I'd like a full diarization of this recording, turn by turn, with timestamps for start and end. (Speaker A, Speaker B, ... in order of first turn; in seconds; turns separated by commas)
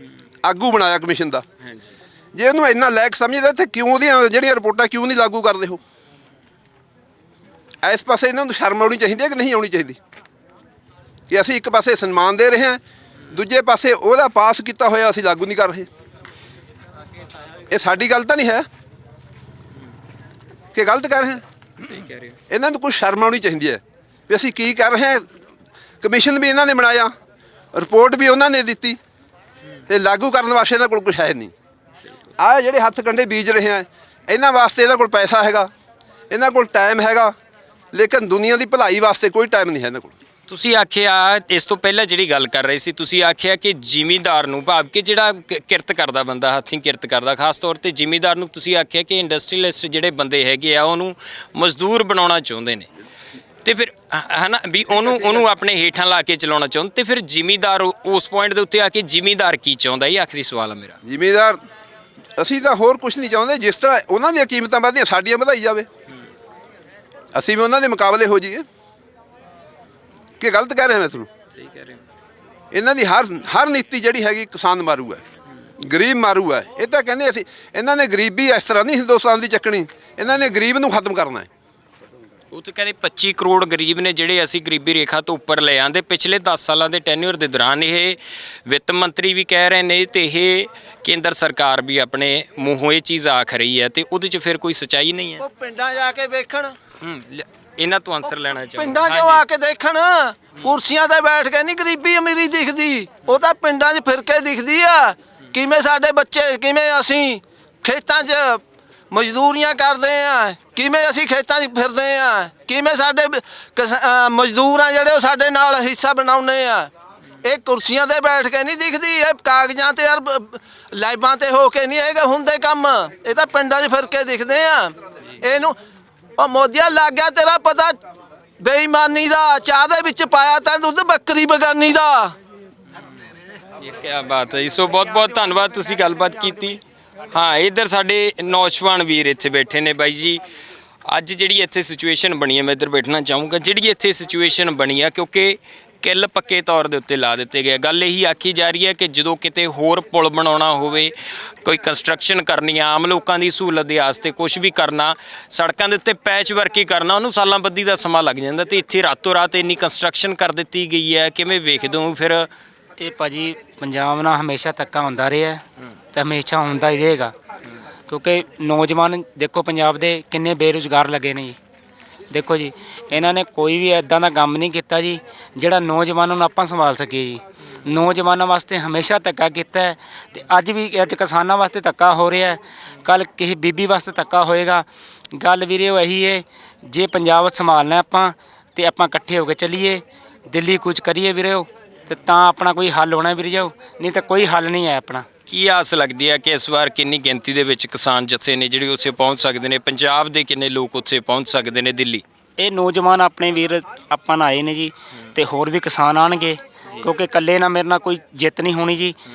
Speaker A: 0.4-1.4, Speaker B: 1.6-2.0, Speaker A: 2.4-5.8, Speaker A: 7.8-10.0, Speaker A: 11.3-15.9, Speaker A: 17.7-18.7, Speaker A: 20.7-21.4, Speaker B: 21.8-22.4, Speaker A: 22.5-25.2, Speaker A: 26.0-27.1, Speaker A: 27.7-29.0, Speaker A: 29.9-31.5, Speaker A: 32.4-35.7, Speaker A: 36.3-37.3, Speaker A: 37.9-40.1, Speaker B: 40.5-52.9, Speaker B: 53.6-61.0, Speaker A: 61.0-61.6, Speaker A: 62.4-65.9, Speaker A: 67.3-68.7, Speaker A: 70.4-71.3, Speaker B: 71.5-72.0, Speaker A: 72.7-75.2, Speaker A: 75.8-81.5, Speaker B: 82.5-95.4, Speaker C: 95.4-96.8, Speaker B: 97.0-99.4, Speaker C: 98.8-116.9, Speaker C: 117.4-125.8, Speaker C: 126.4-128.0, Speaker C: 128.6-132.3, Speaker B: 133.8-140.4, Speaker B: 141.1-151.1, Speaker B: 151.6-162.5, Speaker D: 163.0-167.3, Speaker D: 168.1-171.6, Speaker D: 172.3-195.3, Speaker B: 195.5-202.2, Speaker D: 202.6-209.2